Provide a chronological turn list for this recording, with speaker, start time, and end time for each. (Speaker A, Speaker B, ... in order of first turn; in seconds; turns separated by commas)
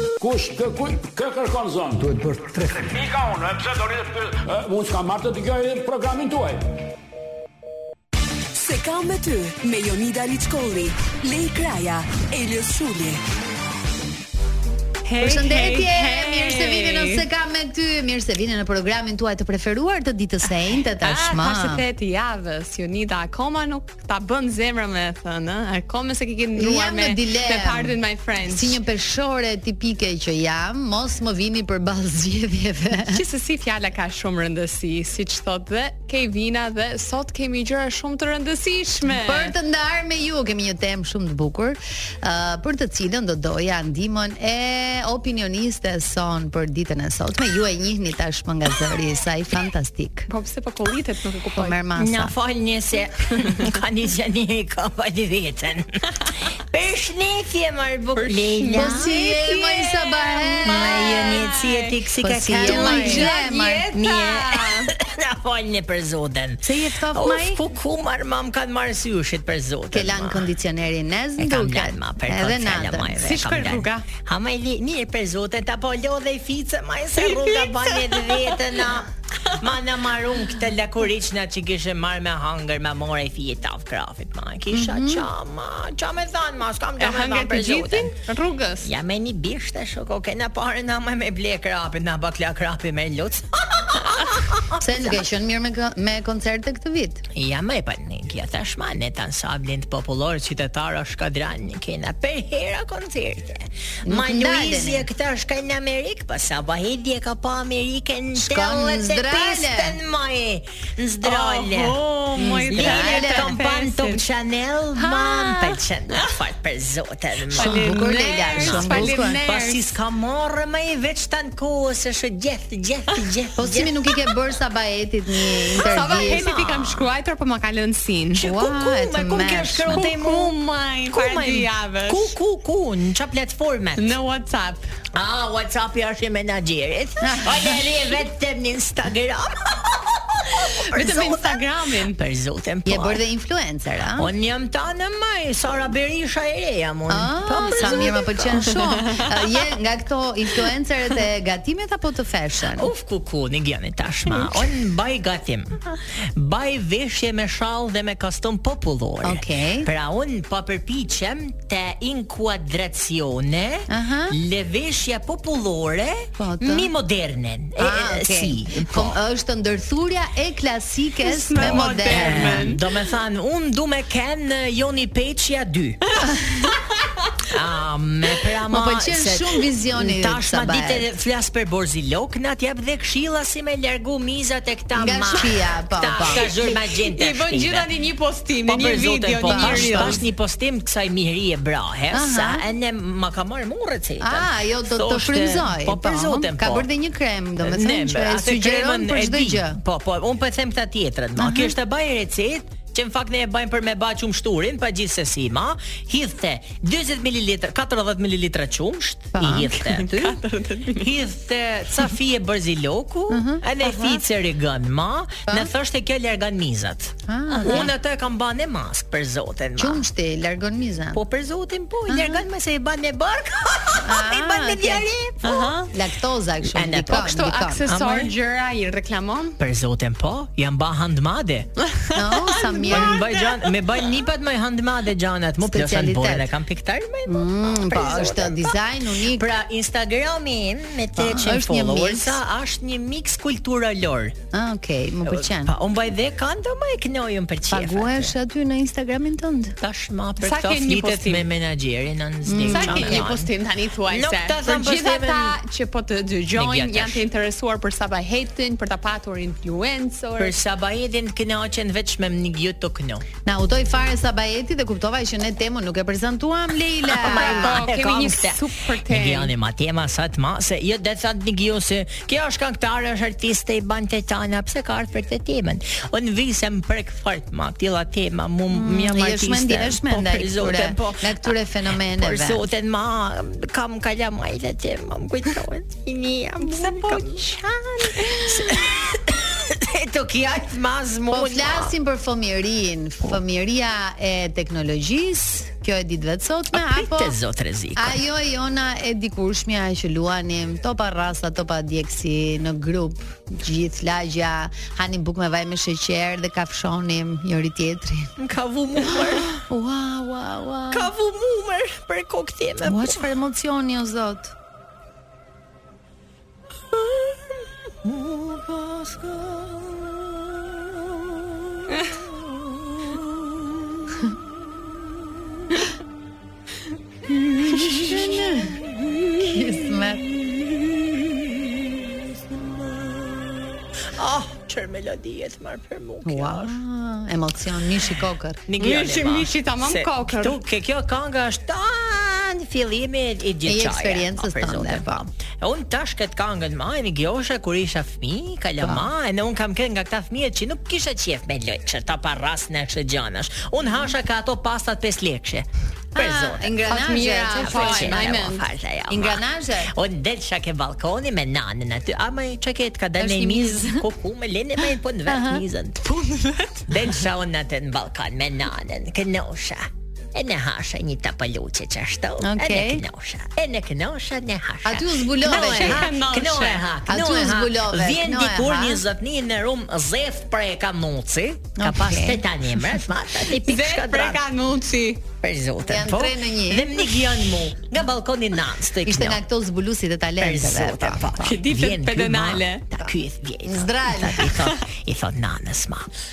Speaker A: 0.2-6.6, Speaker B: 8.5-13.2, Speaker C: 15.0-17.2, Speaker D: 15.2-21.8, Speaker C: 21.0-28.8, Speaker D: 26.6-33.2, Speaker C: 33.1-39.5, Speaker D: 39.1-50.3, Speaker C: 50.3-51.8, Speaker D: 51.5-52.3, Speaker E: 52.0-59.2, Speaker C: 58.2-61.9, Speaker D: 58.7-61.5, Speaker E: 60.6-63.3, Speaker D: 62.2-63.9, Speaker C: 62.6-64.9, Speaker E: 63.9-70.5, Speaker D: 66.6-67.6, Speaker D: 69.9-73.2, Speaker E: 71.4-88.1, Speaker C: 73.2-74.0, Speaker C: 77.2-78.6, Speaker D: 84.7-85.3, Speaker C: 87.0-88.9, Speaker E: 88.8-95.2, Speaker D: 94.8-97.2, Speaker E: 97.4-117.9, Speaker D: 104.0-105.1, Speaker D: 108.4-110.0, Speaker C: 111.2-114.2, Speaker D: 112.4-113.6, Speaker C: 115.0-116.3, Speaker D: 117.5-119.4, Speaker C: 117.5-120.0, Speaker E: 118.6-124.1, Speaker D: 123.6-126.5, Speaker C: 125.8-128.4, Speaker E: 126.4-127.1, Speaker E: 128.4-134.2, Speaker D: 128.4-130.1, Speaker C: 129.9-132.3, Speaker C: 134.0-134.9, Speaker E: 135.2-143.2, Speaker D: 137.2-137.9, Speaker C: 140.9-142.2, Speaker D: 142.9-144.3, Speaker E: 144.2-148.7, Speaker D: 147.1-152.9, Speaker C: 147.7-148.1, Speaker C: 148.7-149.3, Speaker E: 152.7-155.8, Speaker E: 156.3-169.2, Speaker D: 159.2-159.9, Speaker D: 163.9-164.4, Speaker D: 166.4-166.9, Speaker D: 167.8-172.7, Speaker C: 171.2-172.8, Speaker E: 171.6-176.1, Speaker E: 177.5-187.9, Speaker D: 178.7-181.1, Speaker D: 184.9-186.5, Speaker C: 186.4-190.2, Speaker E: 188.7-196.9, Speaker D: 189.4-190.2, Speaker D: 192.1-192.6, Speaker D: 194.2-199.8, Speaker E: 197.6-210.4, Speaker D: 201.4-201.7, Speaker D: 209.3-209.8, Speaker C: 209.9-211.1, Speaker E: 210.9-220.1, Speaker D: 213.3-213.6, Speaker C: 213.8-214.2, Speaker D: 215.5-215.7, Speaker D: 217.3-217.9, Speaker D: 219.8-221.2, Speaker E: 221.1-225.7, Speaker D: 222.1-222.4, Speaker D: 224.0-225.1, Speaker C: 225.4-225.9, Speaker D: 225.8-227.9, Speaker E: 226.7-227.3, Speaker C: 227.1-229.6, Speaker E: 227.9-228.3, Speaker E: 229.6-231.7, Speaker C: 231.8-233.7, Speaker D: 232.2-233.2, Speaker E: 232.9-238.8, Speaker D: 235.6-236.5, Speaker D: 237.3-239.5, Speaker E: 239.3-244.3, Speaker D: 241.2-242.4, Speaker D: 244.5-245.8, Speaker E: 245.3-248.3, Speaker D: 247.7-249.8, Speaker E: 249.8-253.5, Speaker C: 250.4-251.4, Speaker D: 252.5-253.3, Speaker C: 252.7-260.6, Speaker E: 254.1-255.6, Speaker E: 256.5-257.2, Speaker E: 260.4-263.2, Speaker D: 263.5-267.8, Speaker E: 267.2-281.5, Speaker C: 267.2-269.5, Speaker D: 278.7-282.6, Speaker E: 282.1-291.9, Speaker D: 286.6-287.3, Speaker D: 291.3-297.4, Speaker E: 296.7-298.2, Speaker D: 298.0-308.3, Speaker E: 308.4-309.6, Speaker D: 309.1-311.1, Speaker E: 310.9-313.3, Speaker D: 312.8-314.5, Speaker E: 317.0-317.3, Speaker E: 318.1-320.2, Speaker E: 327.6-330.0, Speaker D: 327.6-328.8, Speaker D: 329.4-330.2, Speaker E: 330.5-333.5, Speaker E: 334.1-336.8, Speaker D: 336.2-338.6, Speaker E: 338.7-345.0, Speaker C: 338.8-340.6, Speaker D: 343.7-345.3, Speaker E: 345.6-356.9, Speaker D: 348.8-349.1, Speaker D: 356.1-358.3, Speaker C: 356.9-358.6, Speaker E: 357.6-366.1, Speaker D: 359.1-359.9, Speaker D: 363.2-364.1, Speaker D: 365.3-365.6, Speaker C: 366.0-366.9, Speaker E: 366.9-369.8, Speaker E: 370.4-384.4, Speaker D: 372.4-373.0, Speaker D: 374.9-376.1, Speaker C: 375.6-376.8, Speaker D: 377.1-379.0, Speaker D: 381.8-382.4, Speaker C: 383.6-385.2, Speaker E: 385.4-389.4, Speaker D: 385.9-387.0, Speaker D: 389.1-391.5, Speaker E: 390.4-396.1, Speaker C: 391.4-392.9, Speaker D: 393.6-394.5